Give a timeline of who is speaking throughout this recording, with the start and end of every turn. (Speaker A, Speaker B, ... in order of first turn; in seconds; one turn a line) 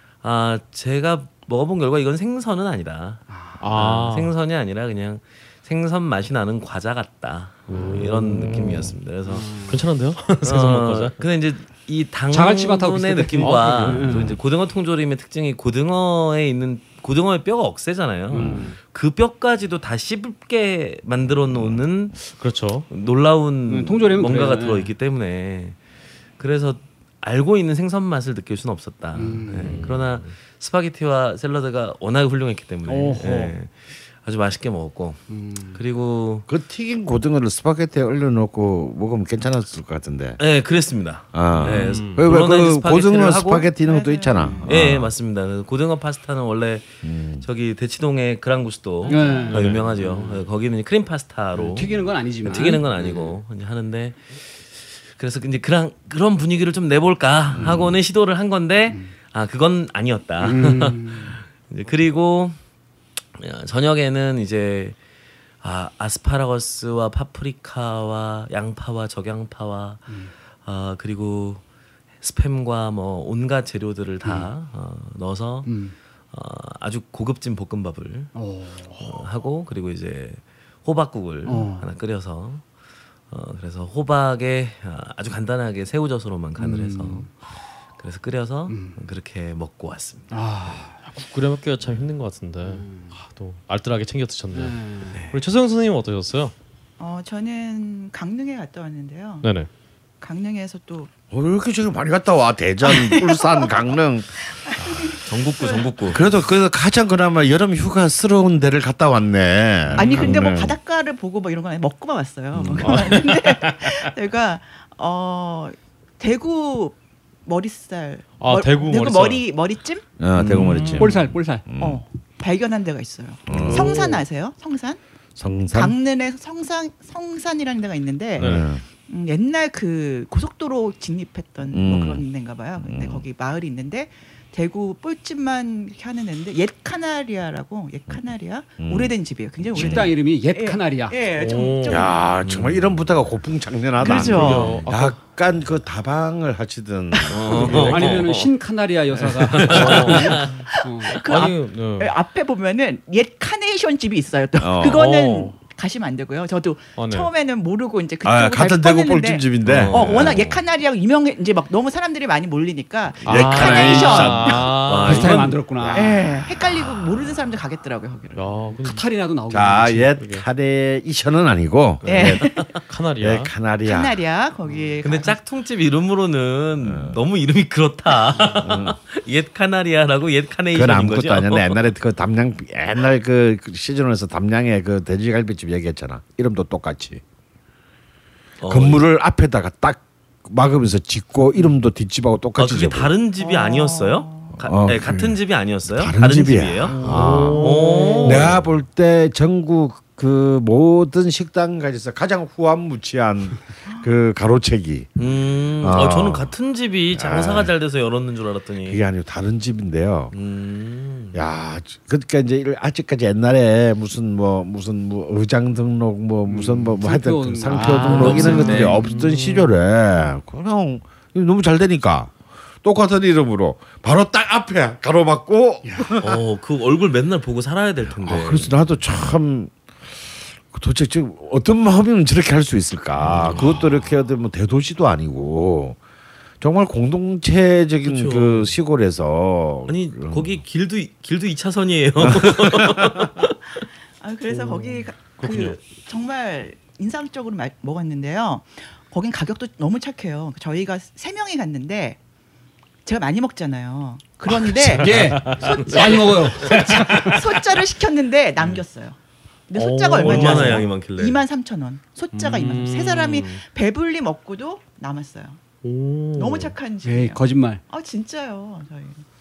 Speaker A: 0.2-9.6
Speaker B: 3.3-3.6
Speaker C: 3.6-4.3
Speaker C: 7.7-9.0
Speaker B: 9.3-9.8
Speaker C: 9.7-11.2
Speaker A: 10.4-22.2
Speaker B: 12.3-14.4
Speaker C: 13.4-14.3
Speaker B: 18.3-18.8
Speaker D: 21.5-21.8
Speaker C: 22.2-22.9
Speaker A: 22.9-25.8
Speaker B: 23.7-24.9
Speaker A: 26.4-36.5
Speaker B: 29.1-29.9
Speaker C: 29.6-30.2
Speaker B: 32.9-33.6
Speaker B: 35.3-35.8
Speaker D: 36.5-40.4
Speaker A: 40.4-43.7
Speaker D: 41.3-45.1
Speaker C: 41.5-42.2
Speaker E: 43.8-44.7
Speaker B: 44.4-44.6
Speaker A: 44.6-62.6
Speaker D: 47.0-47.5
Speaker E: 49.0-49.6
Speaker B: 49.1-50.4
Speaker C: 49.5-49.9
Speaker B: 51.5-53.3
Speaker D: 57.5-58.0
Speaker B: 60.4-61.4
Speaker A: 63.4-65.0
Speaker A: 65.6-71.6
Speaker A: 72.2-75.8
Speaker B: 74.2-74.5
Speaker B: 75.7-75.9
Speaker A: 76.3-78.3
Speaker B: 78.3-79.0
Speaker A: 79.0-82.7
Speaker B: 81.5-81.8
Speaker A: 83.3-87.3
Speaker B: 86.6-87.3
Speaker A: 88.0-90.8
Speaker B: 88.7-89.0
Speaker B: 90.3-91.0
Speaker C: 91.0-96.5
Speaker B: 92.6-93.2
Speaker B: 94.5-95.2
Speaker A: 95.2-95.4
Speaker E: 97.0-99.5
Speaker C: 99.4-99.7
Speaker E: 100.2-101.1
Speaker D: 101.3-105.2
Speaker E: 102.8-106.2
Speaker A: 105.3-106.2
Speaker D: 106.1-110.8
Speaker C: 109.9-110.5
Speaker E: 110.0-120.1
Speaker D: 112.7-112.9
Speaker C: 112.8-114.0
Speaker C: 118.4-119.4
Speaker D: 120.2-122.0
Speaker C: 120.5-121.1
Speaker B: 120.8-121.6
Speaker E: 121.8-125.0
Speaker D: 123.5-124.1
Speaker B: 123.7-124.2
Speaker D: 125.4-126.0
Speaker E: 125.7-142.2
Speaker C: 128.4-128.7
Speaker D: 128.4-128.8
Speaker D: 131.7-132.2
Speaker D: 132.8-133.2
Speaker D: 138.8-139.1
Speaker D: 139.7-140.1
Speaker B: 139.8-141.2
Speaker C: 141.4-142.0
Speaker A: 141.4-142.9
Speaker D: 141.9-148.2
Speaker E: 144.0-144.8
Speaker C: 144.0-145.2
Speaker A: 147.3-148.5
Speaker B: 147.6-151.2
Speaker A: 149.4-150.5
Speaker C: 149.7-150.4
Speaker E: 150.3-164.7
Speaker C: 151.2-152.1
Speaker D: 154.6-155.0
Speaker C: 154.8-155.6
Speaker C: 157.0-157.3
Speaker D: 158.2-160.5
Speaker A: 159.6-160.6
Speaker D: 163.2-164.6
Speaker C: 163.2-165.6
Speaker A: 163.3-165.6
Speaker B: 165.0-166.2
Speaker D: 165.8-167.3
Speaker E: 165.9-168.6
Speaker C: 168.3-169.0
Speaker B: 168.8-170.1
Speaker D: 169.5-174.2
Speaker C: 170.2-170.4
Speaker E: 172.1-172.8
Speaker A: 172.1-172.7
Speaker C: 172.9-173.5
Speaker E: 173.8-175.4
Speaker A: 175.0-181.8
Speaker D: 176.8-177.2
Speaker D: 178.6-179.0
Speaker D: 180.7-187.2
Speaker A: 188.6-189.0
Speaker D: 188.7-193.1
Speaker A: 192.6-197.0
Speaker E: 193.4-194.6
Speaker D: 194.6-205.1
Speaker C: 196.9-198.6
Speaker A: 197.6-198.5
Speaker A: 205.2-209.0
Speaker D: 205.8-206.5
Speaker D: 207.1-207.7
Speaker D: 208.8-210.3
Speaker A: 210.3-211.4
Speaker D: 211.3-226.4
Speaker B: 216.5-218.9
Speaker C: 217.7-219.7
Speaker A: 218.2-219.0
Speaker B: 225.8-226.1
Speaker A: 226.2-228.8
Speaker D: 228.1-236.0
Speaker A: 233.2-233.8
Speaker D: 236.6-240.6
Speaker A: 238.0-238.8
Speaker A: 239.9-243.6
Speaker D: 242.2-243.3
Speaker E: 244.2-252.2
Speaker C: 244.5-245.8
Speaker E: 253.1-259.2
Speaker C: 254.5-256.1
Speaker B: 255.0-257.4
Speaker A: 255.5-256.2
Speaker C: 256.6-257.7
Speaker E: 259.7-265.6
Speaker C: 259.8-260.9
Speaker A: 260.2-261.4
Speaker B: 260.3-260.8
Speaker C: 262.3-263.6
Speaker C: 265.8-266.8
Speaker E: 266.3-269.2
Speaker B: 267.0-267.8